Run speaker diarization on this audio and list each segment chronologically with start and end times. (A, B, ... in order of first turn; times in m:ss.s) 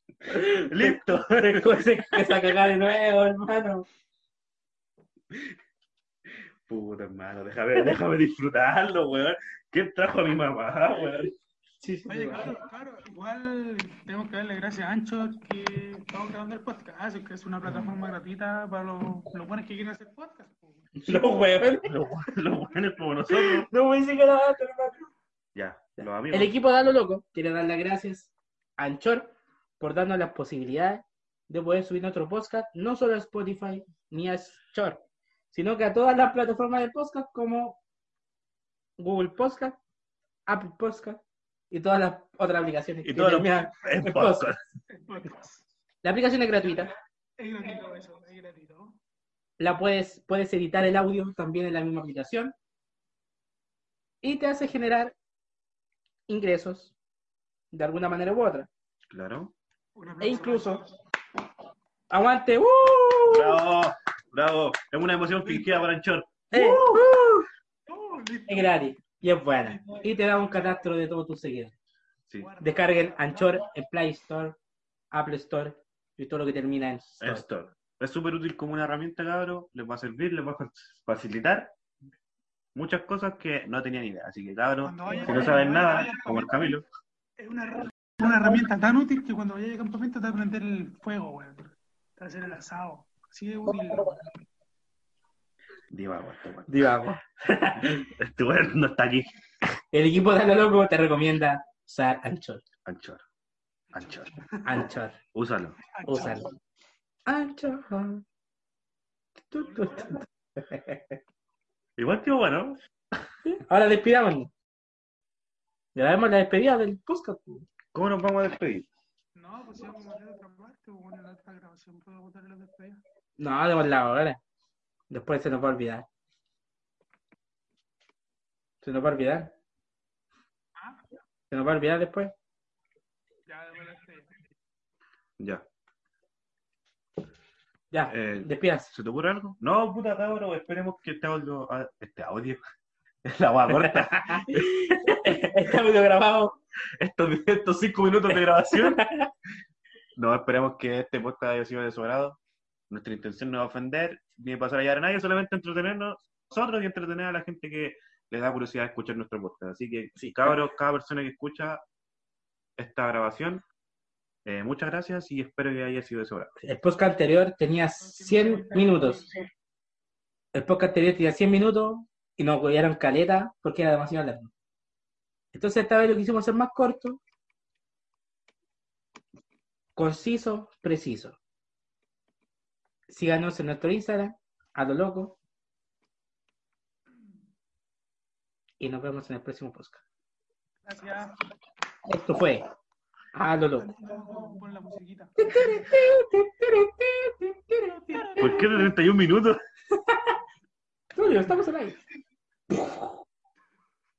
0:00.3-0:03.9 A
0:00.3-0:02.6 B
0:06.7-0:11.3 B
0:11.8-0:12.5 A
0:12.1-0:21.4 C
0:21.0-0:21.9 A
0:21.8-0:23.7 B
0:23.3-0:25.1 A
0:25.6-0:26.5 B
0:26.0-0:37.8 A
0:39.0-0:39.8 A
0:40.5-0:44.5 A
0:43.0-0:44.6 B
0:44.9-0:45.7 C
0:46.0-0:46.9 A
0:47.4-0:49.0 C
0:49.6-0:52.6 A
0:54.2-0:55.2 A
0:56.3-0:57.0 A
0:57.7-0:58.7 A
0:59.1-0:59.5 B
1:00.0-1:00.9 C
1:00.2-1:00.8 A
1:02.1-1:03.6 A
1:03.3-1:07.1 B
1:05.4-1:05.9 C
1:06.5-1:07.5 A
1:07.9-1:08.9 C
1:08.5-1:11.7 A
1:09.6-1:10.9 C
1:12.4-1:13.7 C
1:12.6-1:14.6 A
1:15.1-1:17.4 A
1:17.2-1:21.8 B
1:22.8-1:26.9 B
1:24.8-1:26.7 C
1:25.2-1:25.5 A
1:27.4-1:34.2 C
1:35.9-1:37.1 B
1:36.7-1:38.1 A
1:37.7-1:39.3 B
1:39.9-1:42.6 A
1:42.9-1:43.2 B
1:43.9-1:44.4 B
1:44.5-1:44.9 C
1:44.6-1:45.2 A
1:45.3-1:45.8 B
1:45.8-1:46.5 C
1:46.1-1:46.5 A
1:47.3-1:48.2 A
1:49.5-1:50.9 A
1:49.6-1:50.2 C
1:52.0-1:52.8 B
1:53.5-1:54.5 A
1:56.0-1:57.7 A
1:57.9-1:58.9 B
1:59.4-2:03.0 C
2:03.4-2:04.4 A
2:05.1-2:06.1 A
2:08.8-2:09.6 A
2:10.8-2:11.0 C
2:11.5-2:12.3 A
2:13.5-2:14.4 C
2:15.4-2:15.6 B
2:17.9-2:18.9 A
2:18.1-2:22.6 B
2:23.2-2:24.7 B
2:23.7-2:26.6 A
2:27.0-2:29.0 B
2:28.7-2:29.3 A
2:30.2-2:32.4 B
2:32.9-2:41.8 B
2:42.8-2:43.6 B
2:44.4-2:46.5 B
2:46.6-2:49.2 A
2:48.0-2:49.4 C
2:50.5-2:54.5 A
2:55.5-2:57.2 A
3:00.0-3:01.4 A
3:03.1-3:05.4 A
3:08.8-3:10.0 A
3:10.8-3:11.4 C
3:12.1-3:12.6 A
3:13.4-3:13.9 A
3:13.8-3:15.8 C
3:15.4-3:18.7 A
3:17.8-3:18.8 C
3:18.4-3:19.6 B
3:20.0-3:20.4 A
3:21.1-3:22.0 A